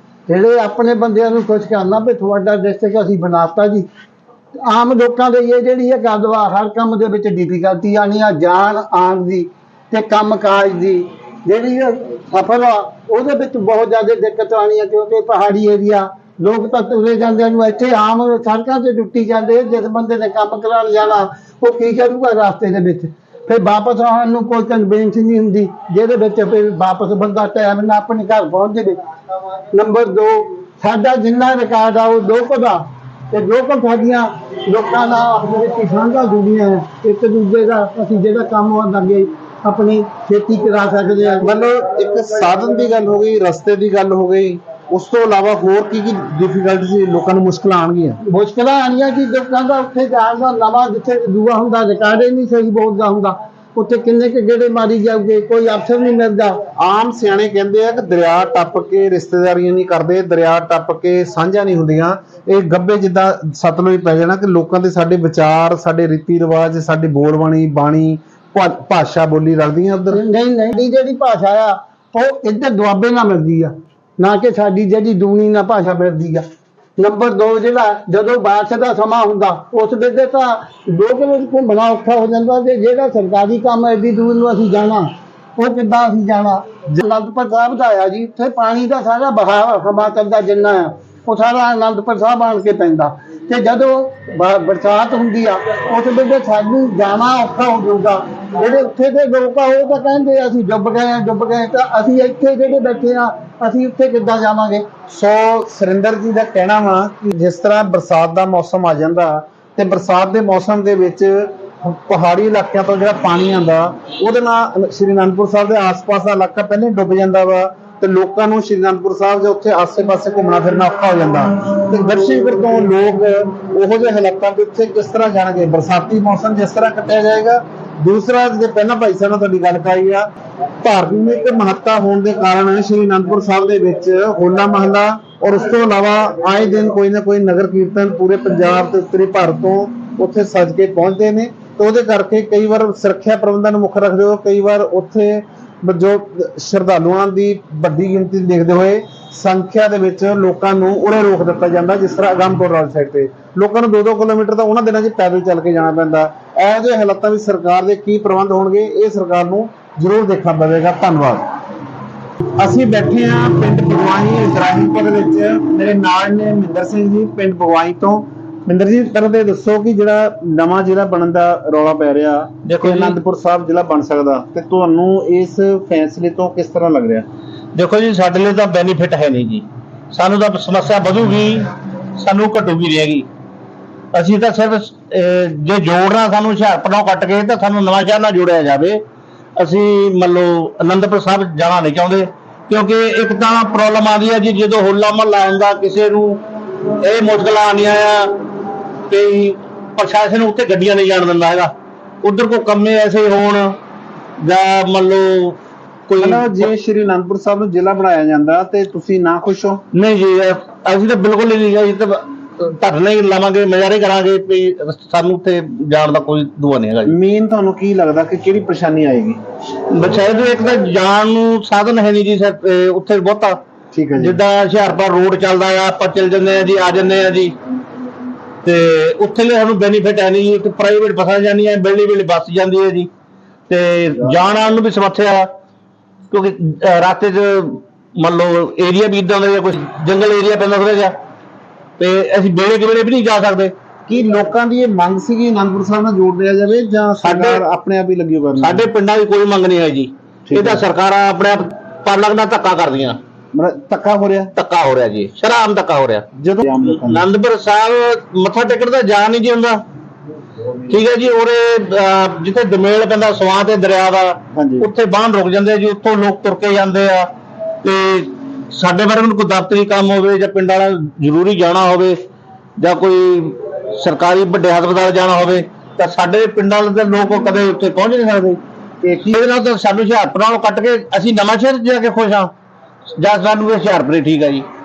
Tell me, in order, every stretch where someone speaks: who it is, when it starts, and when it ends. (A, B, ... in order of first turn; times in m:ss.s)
0:00.3-0:03.9 A
0:04.6-0:29.0 A
0:29.7-0:32.8 A
0:33.3-0:41.5 A
0:41.4-0:48.2 B
0:48.2-0:56.6 A
0:56.8-1:10.2 B
1:10.1-1:16.4 A
1:17.0-1:44.8 A
1:45.1-2:10.3 B
2:10.8-2:41.4 B
2:42.6-2:57.2 B
2:52.6-2:53.2 C
2:57.7-3:03.3 C
3:04.1-3:09.0 C
3:09.6-3:16.4 C
3:17.0-3:18.3 C
3:19.1-3:21.7 C
3:22.2-3:23.7 C
3:24.4-3:26.7 C
3:26.2-3:29.8 B
3:29.9-3:37.1 C
3:37.0-3:39.4 B
3:39.9-3:43.6 C
3:43.9-3:44.4 B
3:44.2-3:47.5 C
3:48.6-3:53.1 C
3:53.7-3:55.5 C
3:56.3-4:01.1 C
4:02.0-4:03.7 C
4:04.1-4:08.9 B
4:07.2-4:07.6 C
4:08.6-4:13.2 C
4:10.5-4:10.8 B
4:13.5-4:14.5 B
4:14.5-4:16.2 C
4:16.4-4:17.3 B
4:16.8-4:19.8 C
4:20.8-4:27.3 C
4:24.5-4:24.9 B
4:27.8-4:32.2 C
4:32.8-4:38.6 C
4:39.2-4:42.5 C
4:43.2-4:44.6 C